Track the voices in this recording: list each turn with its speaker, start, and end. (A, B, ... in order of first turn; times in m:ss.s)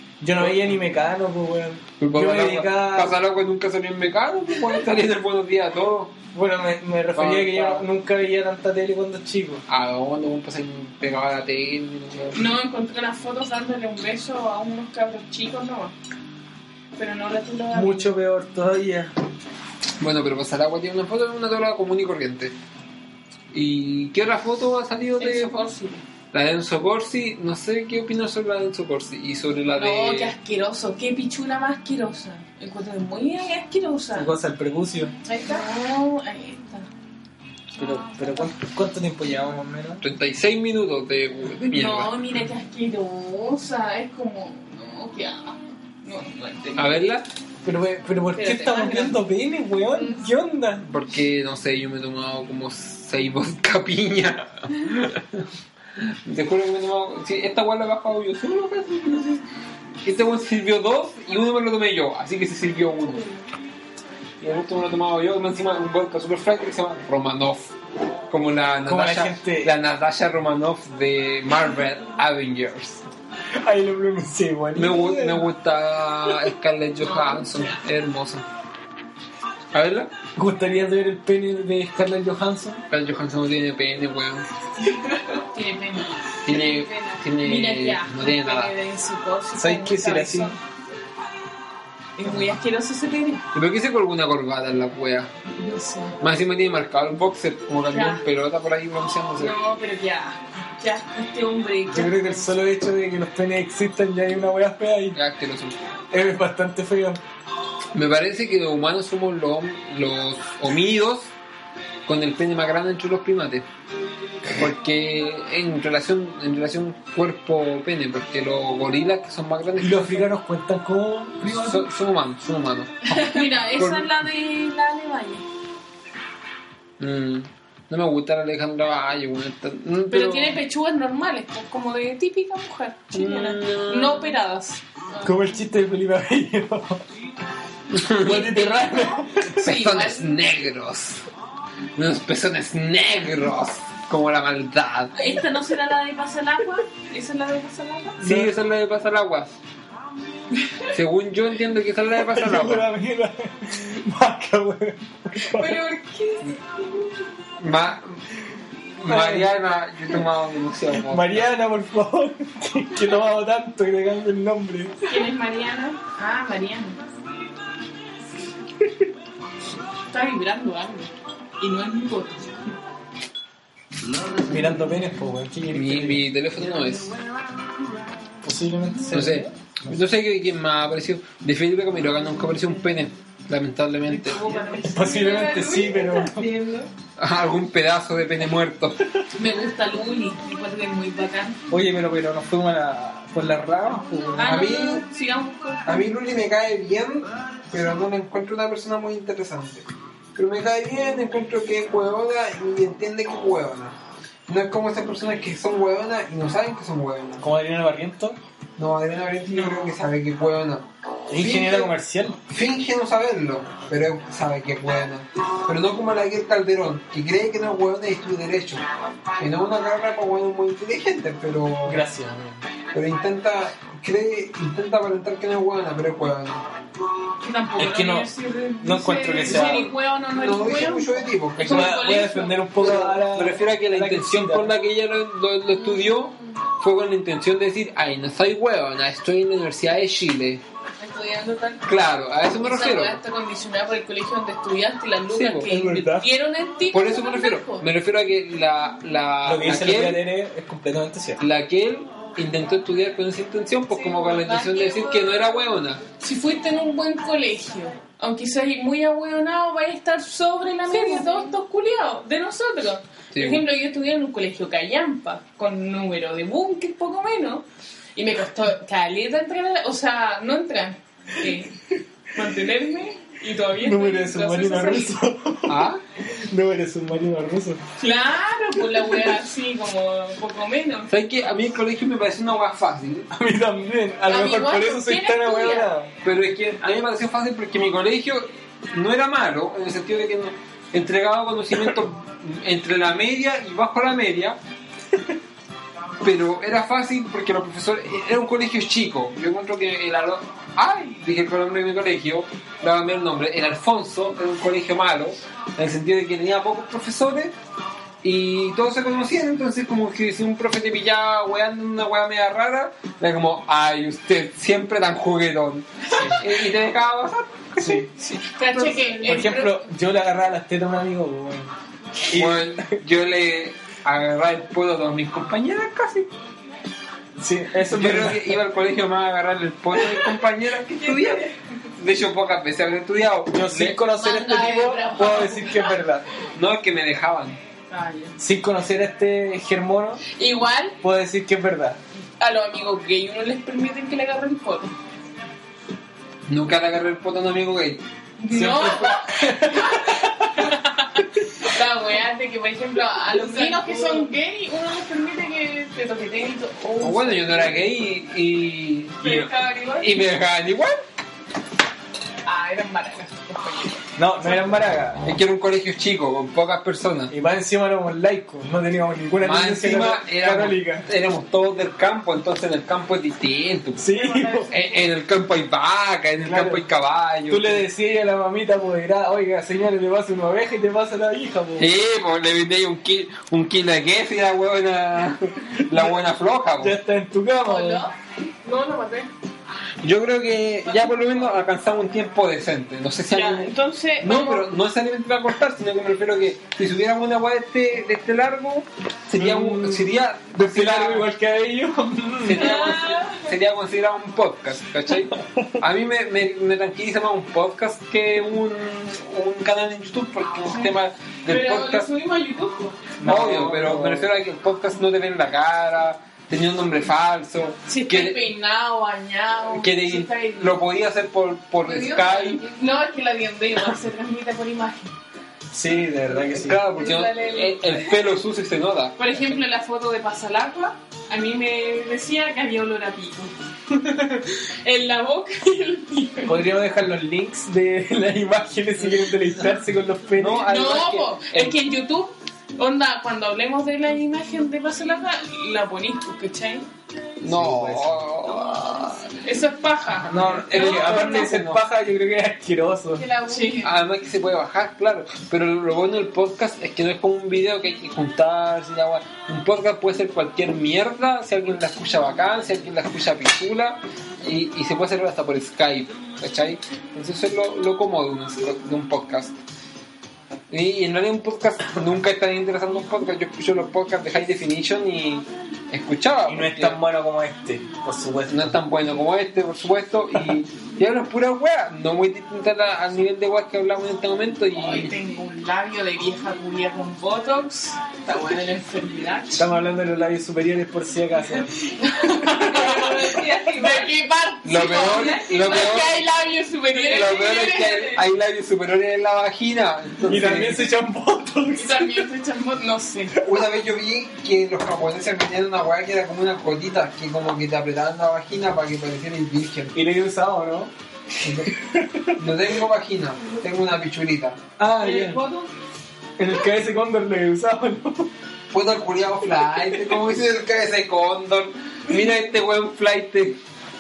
0:00.2-0:03.2 A
0:00.4-0:00.8 B
0:02.0-0:06.2 B
0:06.3-0:09.6 A
0:07.1-0:07.9 B
0:09.7-0:12.4 B
0:12.3-0:16.0 C
0:17.0-0:18.1 C
0:17.7-0:19.1 A
0:20.0-0:22.6 B
0:23.5-0:25.7 B
0:25.2-0:26.0 C
0:26.3-0:30.4 B
0:29.7-0:34.3 C
0:34.1-0:35.2 A
0:35.2-0:36.9 C
0:37.8-0:40.0 A
0:40.0-0:42.1 B
0:41.6-0:47.1 C
0:46.8-0:47.3 B
0:47.6-0:50.8 A
0:48.4-0:49.2 C
0:50.8-0:55.5 B
0:56.0-0:59.4 B
1:00.0-1:03.3 B
1:04.4-1:07.7 B
1:08.3-1:13.0 B
1:08.9-1:09.7 A
1:13.6-1:15.5 A
1:14.8-1:18.4 B
1:17.0-1:17.8 C
1:19.7-1:20.1 B
1:20.4-1:22.8 A
1:22.9-1:24.5 B
1:24.8-1:30.6 C
1:26.4-1:28.7 B
1:29.5-1:30.5 A
1:32.2-1:33.4 C
1:33.5-1:35.3 B
1:35.6-1:36.2 C
1:36.2-1:39.6 B
1:37.9-1:38.2 C
1:39.4-1:42.2 C
1:41.9-1:45.2 A
1:45.2-1:45.8 B
1:46.1-1:47.2 A
1:47.9-1:51.3 B
1:52.1-1:53.6 B
1:54.5-2:00.3 B
1:59.8-2:01.8 A
2:01.5-2:04.1 B
2:03.1-2:05.4 C
2:07.0-2:10.6 B
2:10.1-2:15.3 C
2:13.1-2:14.4 B
2:15.2-2:17.0 A
2:17.9-2:18.6 B
2:18.2-2:19.6 A
2:18.2-2:20.4 C
2:19.6-2:21.2 B
2:22.0-2:25.2 B
2:25.2-2:28.2 C
2:28.2-2:28.5 A
2:28.2-2:29.5 B
2:30.9-2:32.9 B
2:32.2-2:35.8 A
2:35.5-2:36.6 C
2:37.6-2:38.2 B
2:39.0-2:41.5 B
2:39.0-2:39.5 A
2:40.9-2:45.2 A
2:45.1-2:47.0 C
2:50.1-2:52.7 C
2:54.4-2:56.2 A
2:55.7-2:57.2 B
2:58.4-3:00.0 A
2:59.1-3:04.4 B
3:04.2-3:06.9 D
3:04.3-3:05.4 C
3:04.8-3:06.5 A
3:07.2-3:09.1 B
3:09.4-3:11.6 C
3:11.7-3:14.8 A
3:14.4-3:16.1 C
3:14.4-3:15.0 B
3:15.8-3:27.4 B
3:27.4-3:28.4 A
3:28.8-3:31.9 B
3:29.5-3:30.0 C
3:31.3-3:32.4 A
3:32.5-3:38.8 B
3:39.4-3:42.0 B
3:41.8-3:42.6 A
3:42.9-3:46.6 B
3:47.4-3:52.9 C
3:47.8-3:48.3 A
3:48.8-3:49.9 A
3:49.5-3:52.0 B
3:51.6-3:54.7 A
3:52.8-4:00.6 B
3:55.8-3:56.6 D
4:01.0-4:01.8 D
4:01.9-4:03.2 B
4:02.6-4:07.9 C
4:05.3-4:05.7 B
4:05.7-4:06.3 A
4:06.9-4:10.2 B
4:09.4-4:11.4 A
4:11.4-4:16.0 B
4:13.9-4:15.6 D
4:16.2-4:27.6 C
4:20.9-4:21.5 D
4:23.3-4:23.6 B
4:28.2-4:35.2 C
4:33.8-4:37.8 A
4:35.7-4:36.0 B
4:38.0-4:41.1 C
4:41.1-4:43.3 B
4:43.3-4:46.1 A
4:44.3-4:45.9 C
4:46.2-4:54.6 B
4:56.2-5:07.5 B
5:08.2-5:19.4 B
5:16.1-5:16.4 A
5:17.8-5:18.1 A
5:18.6-5:19.9 C
5:19.2-5:21.7 A
5:22.3-5:23.0 A
5:22.3-5:26.3 B
5:27.4-5:28.6 A
5:27.9-5:34.0 B
5:31.0-5:31.5 C
5:33.5-5:36.2 A
5:34.2-5:36.0 C
5:36.6-5:37.6 B
5:37.9-5:38.4 C
5:38.4-5:40.2 A
5:40.3-5:41.0 C
5:41.0-5:42.0 A
5:42.4-5:45.0 C
5:46.5-5:48.0 B
5:48.4-5:57.8 C
5:48.5-5:50.7 A
5:53.3-5:54.3 D
5:57.0-6:01.0 B
5:59.2-6:00.2 C
6:02.5-6:04.5 C
6:04.2-6:05.2 A
6:05.2-6:07.3 B
6:07.3-6:11.1 A
6:09.4-6:14.0 B
6:14.0-6:14.7 A
6:14.1-6:15.0 C
6:14.7-6:17.8 B
6:16.4-6:16.8 A
6:17.5-6:21.9 A
6:21.8-6:27.0 B
6:25.9-6:26.2 A
6:26.8-6:28.1 A
6:27.6-6:27.9 D
6:27.6-6:28.1 C
6:28.6-6:29.3 C
6:30.0-6:41.3 B
6:30.8-6:31.5 C
6:33.3-6:34.7 C
6:39.3-6:42.9 A
6:42.4-6:52.1 B
6:42.6-6:43.4 C
6:45.4-6:45.7 A
6:51.4-6:53.0 C
6:53.2-6:54.3 A
6:53.2-6:58.5 B
6:57.9-7:00.8 C
6:59.8-7:02.6 B
7:01.8-7:03.0 D
7:02.6-7:05.2 C
7:05.7-7:06.8 A
7:06.3-7:09.2 B
7:06.9-7:08.1 D
7:09.2-7:16.7 C
7:16.4-7:20.7 A
7:20.4-7:21.8 B
7:20.6-7:26.9 C
7:27.4-7:29.3 B
7:27.4-7:28.5 A
7:29.3-7:31.5 C
7:30.2-7:33.2 A
7:30.6-7:31.8 B
7:33.2-7:33.9 D
7:33.5-7:33.9 C
7:33.8-7:49.6 B
7:50.7-7:57.0 B
7:56.5-7:58.8 A
7:58.5-8:05.1 B
8:04.7-8:09.7 C
8:09.6-8:11.7 A
8:11.5-8:18.2 C
8:12.2-8:14.2 D
8:12.5-8:13.1 A
8:14.6-8:16.2 B
8:16.9-8:20.9 B
8:20.2-8:22.3 A
8:21.8-8:23.4 C
8:23.4-8:30.0 B
8:29.9-8:30.9 A
8:31.3-8:31.8 B
8:31.7-8:32.4 A
8:32.4-8:34.6 B
8:34.8-8:35.4 A
8:35.0-8:35.7 C
8:36.4-8:38.3 A
8:38.7-8:43.6 B